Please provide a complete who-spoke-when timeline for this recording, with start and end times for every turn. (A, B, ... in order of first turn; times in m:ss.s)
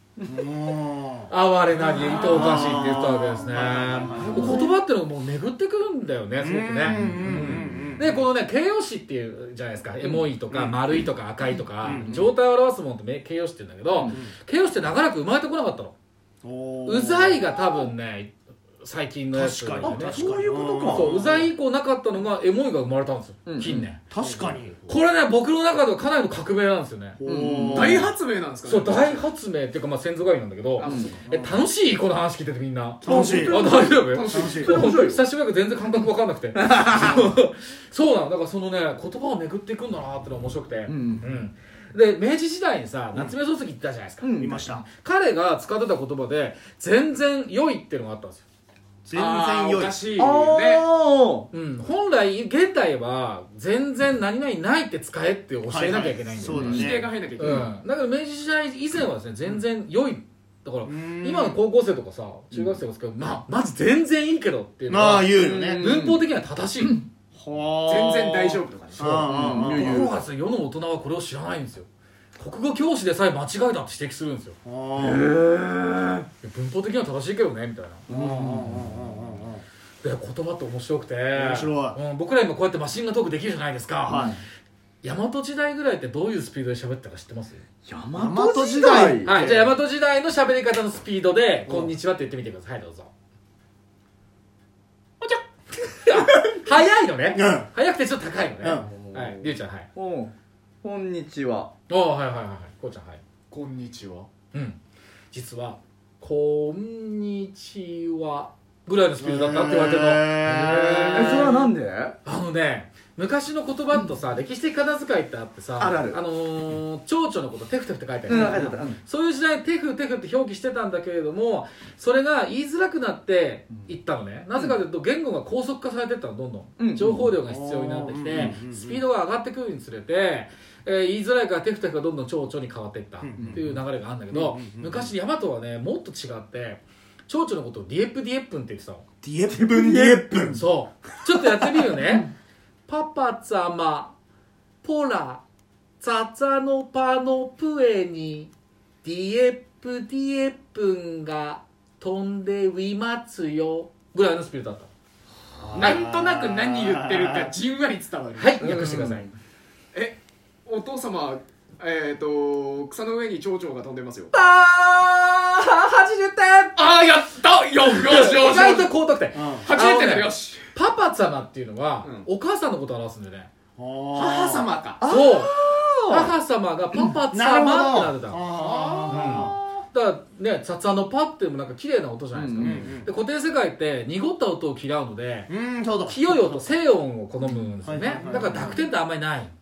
0:00.2-0:01.3 A
0:01.3-0:15.9 B
0:02.0-0:04.6 A
0:04.2-0:04.7 C
0:06.4-0:08.2 A
0:06.9-0:07.9 C
0:10.0-0:10.3 C
0:10.5-0:11.0 A
0:11.8-0:12.2 A
0:11.9-0:12.3 C
0:13.9-0:14.2 C
0:16.4-0:17.8 A
0:16.8-0:20.3 B
0:19.3-0:21.3 A
0:19.8-0:21.4 C
0:20.9-0:24.0 B
0:23.5-0:23.8 C
0:24.1-0:25.0 A
0:24.9-0:27.2 B
0:27.2-0:28.1 A
0:27.2-0:28.1 C
0:27.7-0:29.2 D
0:28.6-0:48.4 B
0:30.8-0:31.2 D
0:30.8-0:31.2 C
0:31.2-0:31.6 A
0:33.0-0:33.6 A
0:33.0-0:34.0 C
0:33.8-0:34.7 D
0:34.3-0:34.8 A
0:34.5-0:35.2 C
0:36.6-0:37.2 C
0:40.9-0:41.2 C
0:44.2-0:44.6 C
0:44.4-0:44.8 A
0:49.0-0:50.0 A
0:49.1-0:50.8 D
0:50.2-0:51.5 C
0:51.5-1:07.1 B
0:55.7-0:57.6 A
0:56.5-0:56.8 C
0:56.6-0:57.7 D
1:00.8-1:01.6 A
1:04.9-1:05.9 A
1:05.4-1:05.8 C
1:05.6-1:06.2 D
1:07.3-1:10.1 A
1:07.8-1:09.4 D
1:09.0-1:10.1 C
1:09.5-1:14.6 B
1:14.6-1:15.3 A
1:15.0-1:16.2 C
1:16.4-1:18.0 B
1:18.1-1:18.9 C
1:18.1-1:19.6 A
1:20.0-1:24.3 B
1:21.3-1:22.0 A
1:24.0-1:24.3 A
1:24.1-1:24.4 C
1:25.0-1:27.6 B
1:27.8-1:29.3 C
1:28.1-1:29.7 A
1:29.2-1:33.1 B
1:31.6-1:31.9 A
1:35.8-1:39.9 B
1:37.3-1:37.7 A
1:38.6-1:38.9 A
1:39.1-1:39.4 C
1:39.9-1:40.3 C
1:40.8-1:41.7 C
1:41.9-1:43.2 B
1:43.5-1:44.3 D
1:44.5-1:44.8 B
1:45.3-1:51.7 B
1:49.2-1:51.4 A
1:51.1-1:52.2 C
1:52.2-2:19.0 B
1:55.8-1:56.2 C
1:58.2-1:59.0 C
2:06.8-2:07.3 C
2:07.4-2:09.0 A
2:13.2-2:15.1 A
2:19.2-2:20.6 A
2:19.6-2:20.6 C
2:20.5-2:22.3 B
2:22.9-2:24.1 B
2:24.8-2:25.4 B
2:26.0-2:28.5 B
2:29.0-2:34.9 B
2:35.6-2:37.5 A
2:35.7-2:38.8 D
2:38.4-2:39.3 B
2:38.6-2:39.3 C
2:39.9-2:44.3 D
2:44.3-2:45.6 C
2:46.2-2:46.7 B
2:46.7-2:48.9 D
2:48.0-2:53.5 B
2:49.3-2:49.6 A
2:49.6-2:50.6 D
2:53.8-2:54.8 A
2:54.1-2:55.0 D
2:55.0-2:56.3 C
2:55.1-2:55.5 B
2:56.1-2:58.4 B
2:57.3-2:59.6 A
2:58.6-2:59.5 D
2:59.1-3:05.5 B
3:02.3-3:03.0 C
3:02.6-3:03.1 A
3:05.5-3:06.6 A
3:06.0-3:09.5 B
3:07.8-3:08.8 A